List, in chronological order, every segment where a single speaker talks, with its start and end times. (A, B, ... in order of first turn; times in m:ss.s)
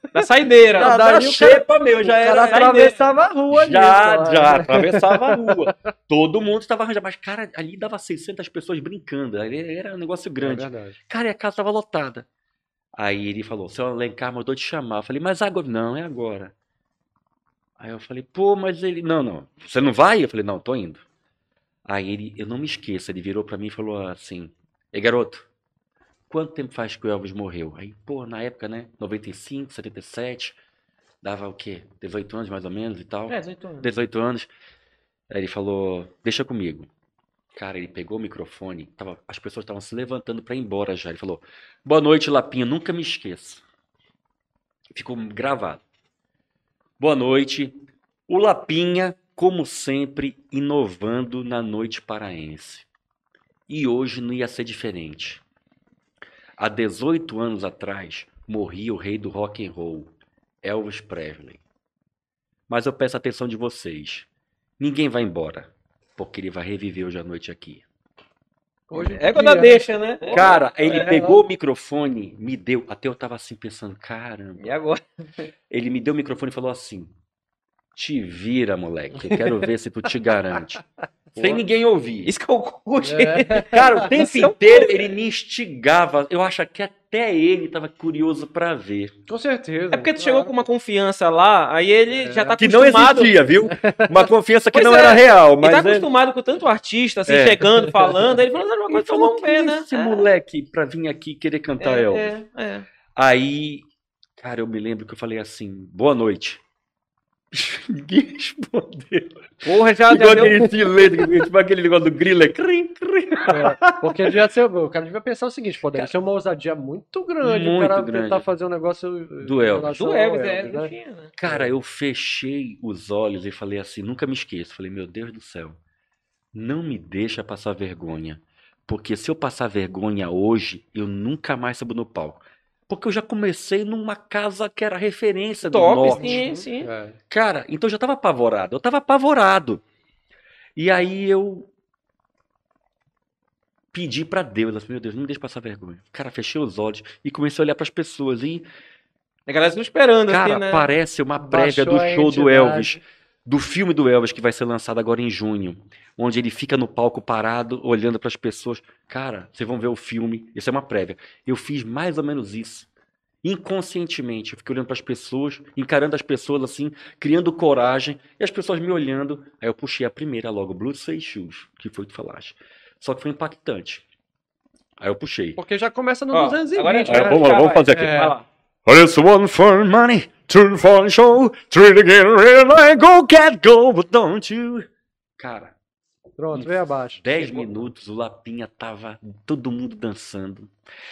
0:00.1-0:01.0 A
0:00.8-0:03.0 B
0:00.8-0:05.7 C
0:02.6-0:03.0 A
0:03.5-0:12.3 B
0:10.4-0:11.0 C
0:13.0-0:16.5 B
0:17.8-0:21.0 B
0:21.9-0:25.5 B
0:26.3-0:30.6 B
0:31.2-0:34.5 B
0:33.3-0:33.9 A
0:35.3-0:36.9 B
0:37.6-0:43.6 B
0:44.9-0:45.8 B
0:47.0-0:47.8 B
0:48.3-0:52.9 B
0:53.7-0:55.4 B
0:56.6-1:00.1 B
1:00.6-1:01.6 B
1:02.7-1:04.3 B
1:04.8-1:07.8 B
1:08.9-1:11.2 C
1:09.0-1:11.3 A
1:10.3-1:14.7 B
1:14.6-1:15.5 A
1:15.7-1:17.1 B
1:17.9-1:20.8 B
1:19.2-1:19.5 C
1:21.3-1:22.3 B
1:22.2-1:25.1 A
1:23.0-1:24.1 C
1:23.7-1:29.1 B
1:29.3-1:30.5 C
1:29.9-1:33.3 A
1:32.2-1:32.6 C
1:32.6-1:36.1 B
1:33.8-1:34.1 C
1:34.7-1:40.3 A
1:37.3-1:37.7 B
1:38.9-1:42.3 B
1:41.8-1:42.9 A
1:43.2-1:43.9 B
1:44.4-1:46.6 B
1:47.5-1:54.4 B
1:49.6-1:50.8 A
1:53.5-2:00.9 C
1:57.4-1:58.5 B
1:59.4-2:00.0 B
2:00.0-2:01.3 A
2:01.4-2:05.8 B
2:06.5-2:16.5 B
2:15.6-2:16.9 A
2:16.1-2:17.2 C
2:17.3-2:19.8 B
2:20.8-2:21.7 B
2:23.9-2:28.7 B
2:29.5-2:30.9 A
2:30.3-2:42.9 B
2:31.5-2:33.0 C
2:43.4-2:54.0 B
2:55.0-2:55.6 B
2:55.6-2:58.4 C
2:56.3-2:58.5 A
2:57.1-2:58.3 B
2:58.9-3:05.8 B
3:06.4-3:07.7 C
3:06.5-3:10.7 B